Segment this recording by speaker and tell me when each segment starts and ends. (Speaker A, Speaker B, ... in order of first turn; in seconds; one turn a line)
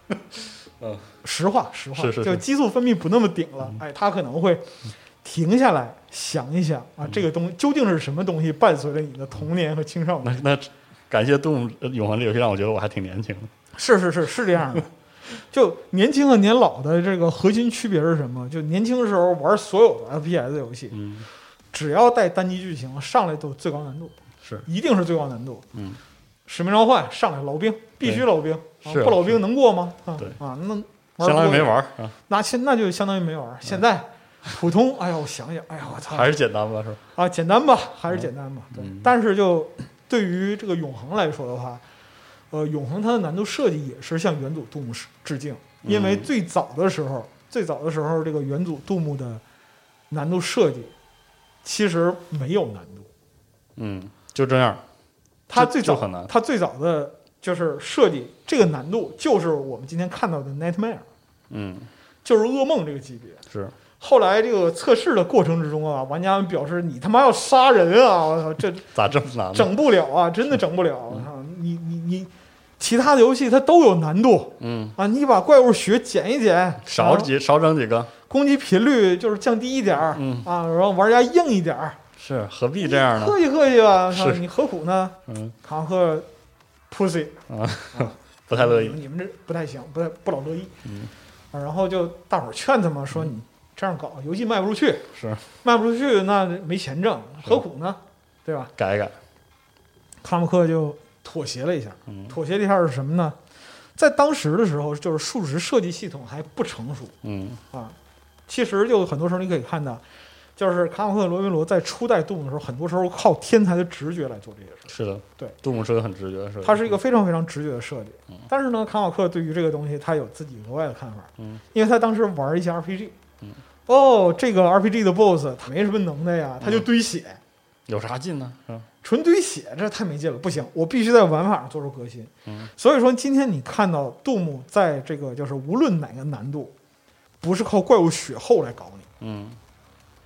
Speaker A: 0.8-1.1
Speaker B: 1.2-4.7
Speaker A: 2.0-2.4
Speaker B: 5.2-10.4
Speaker A: 10.2-13.5
Speaker B: 13.8-14.9
Speaker B: 15.5-21.0
Speaker A: 20.9-21.3
Speaker B: 21.7-25.6
Speaker B: 26.5-31.8
Speaker A: 28.8-29.4
Speaker A: 31.2-32.1
Speaker B: 32.3-36.3
Speaker A: 36.1-37.0
Speaker B: 37.2-41.8
Speaker A: 38.1-39.1
Speaker B: 42.5-49.4
Speaker A: 45.9-46.3
Speaker B: 50.1-50.9
Speaker B: 51.6-53.1
Speaker A: 53.8-54.8
Speaker B: 55.5-61.0
Speaker A: 55.5-56.3
Speaker A: 61.5-61.9
Speaker B: 62.2-63.4
Speaker B: 64.0-68.9
Speaker A: 69.0-69.7
Speaker B: 69.5-77.3
Speaker A: 74.6-75.0
Speaker A: 76.9-78.1
Speaker B: 78.3-82.0
Speaker A: 80.2-80.5
Speaker A: 82.2-83.4
Speaker B: 82.8-86.3
Speaker A: 84.1-84.4
Speaker A: 85.3-85.5
Speaker B: 86.9-87.4
Speaker A: 87.5-89.0
Speaker B: 87.9-90.7
Speaker A: 90.8-91.1
Speaker B: 91.5-95.1
Speaker A: 95.2-95.4
Speaker B: 95.6-98.7
Speaker A: 98.8-99.2
Speaker B: 100.2-103.4
Speaker A: 102.1-102.4
Speaker B: 104.0-107.1
Speaker A: 107.2-107.6
Speaker B: 108.5-110.0
Speaker B: 110.6-115.6
Speaker A: 114.9-117.0
Speaker B: 116.6-123.2
Speaker B: 123.9-127.4
Speaker A: 126.6-126.9
Speaker A: 127.9-128.9
Speaker B: 129.0-136.7
Speaker B: 137.4-139.1
Speaker A: 139.2-139.6